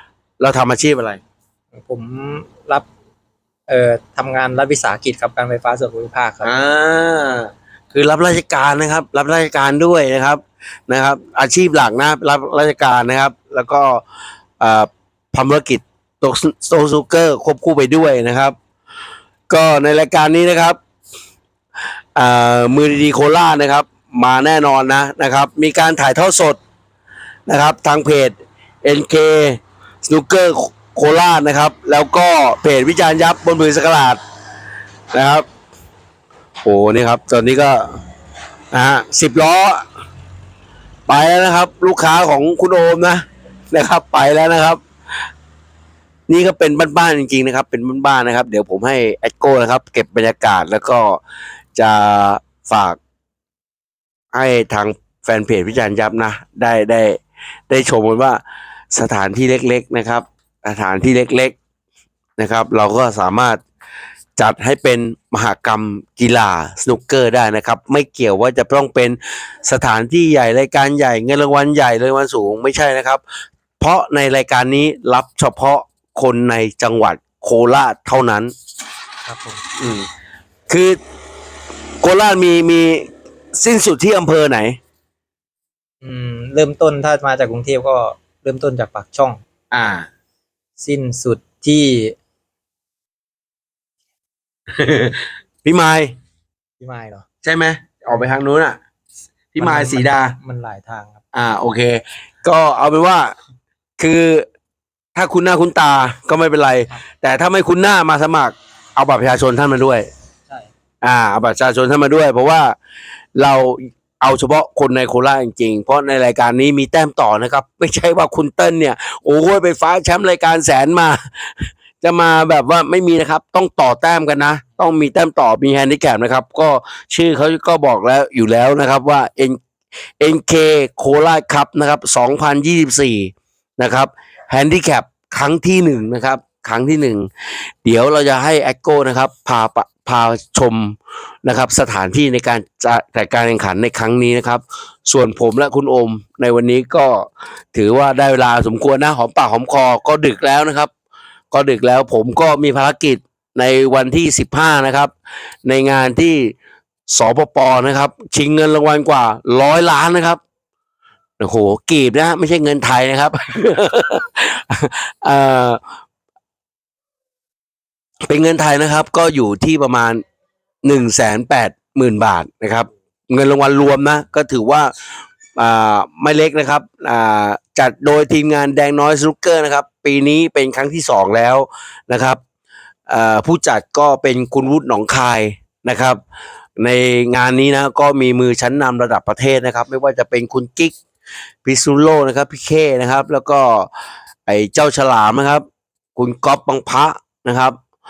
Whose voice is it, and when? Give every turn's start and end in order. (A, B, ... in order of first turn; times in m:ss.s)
0:00.4-0:01.2 A
0:01.8-0:02.9 B
0:03.7-0:06.5 B
0:06.4-0:14.0 A
0:14.6-0:18.6 A
0:19.5-0:20.8 A
0:22.1-0:26.6 A
0:27.5-0:34.2 A
0:35.1-0:35.4 A
0:36.6-0:37.9 A
0:38.7-0:39.8 A
0:41.1-0:44.8 A
0:46.3-0:51.2 A
0:51.8-0:53.0 A
0:54.3-0:58.4 A
0:58.9-1:01.6 A
1:02.4-1:03.6 A
1:04.4-1:13.2 A
1:13.8-1:18.5 A
1:19.2-1:19.6 B
1:19.8-1:20.1 A
1:20.7-1:21.0 A
1:22.0-1:24.8 A
1:26.0-1:29.4 B
1:29.7-1:30.1 A
1:30.8-1:32.2 B
1:34.7-1:36.1 A
1:36.8-1:37.2 B
1:37.4-1:38.8 A
1:39.5-1:40.4 A
1:39.6-1:41.2 B
1:41.3-1:43.4 A
1:44.0-1:44.4 A
1:45.1-1:50.1 A
1:51.0-1:52.8 A
1:53.4-2:09.6 A
2:10.2-2:30.9 A
2:31.5-2:35.1 A
2:35.6-2:36.5 A
2:37.1-2:40.4 A
2:41.4-2:45.8 A
2:48.3-2:50.2 A
2:50.8-2:54.9 A
2:55.6-3:02.4 A
3:03.1-3:06.2 A
3:06.8-3:11.0 A
3:11.6-3:13.9 A
3:14.4-3:15.6 A
3:16.2-3:17.8 A